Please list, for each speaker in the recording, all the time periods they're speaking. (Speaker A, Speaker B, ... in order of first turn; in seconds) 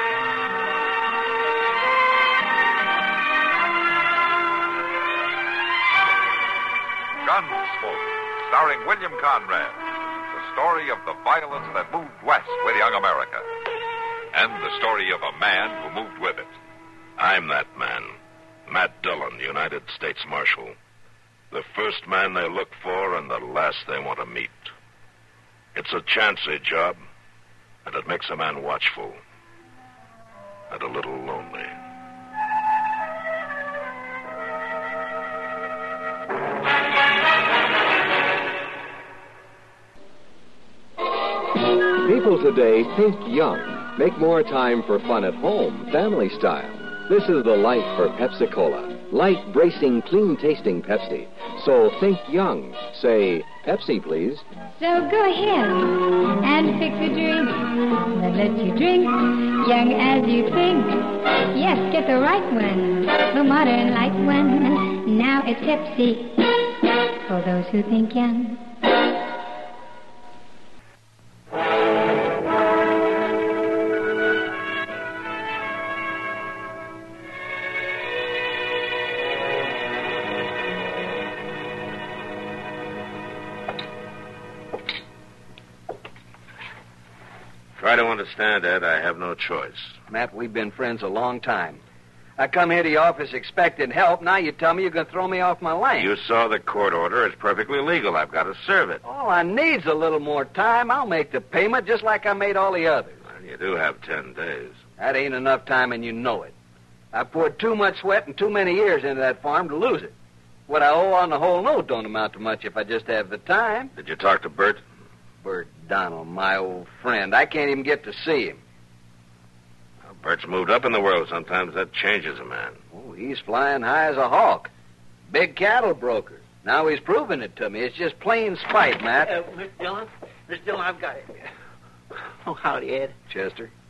Speaker A: 7.2-13.5, 14.3-16.5
Speaker B: 17.2-18.1, 18.7-20.7, 21.5-24.7, 25.7-27.0, 27.8-29.2, 30.7-31.7, 87.8-90.0, 96.0-99.0, 103.3-104.8, 113.9-114.8, 120.1-122.8
Speaker C: 41.9-54.4
Speaker D: 54.7-68.7
Speaker E: 90.1-91.8, 92.4-96.1, 99.0-103.2, 105.0-106.5, 107.1-110.1, 110.7-113.9, 115.4-118.6, 122.9-124.7, 125.3-129.3, 133.3-133.7
Speaker F: 129.2-131.3, 132.4-133.1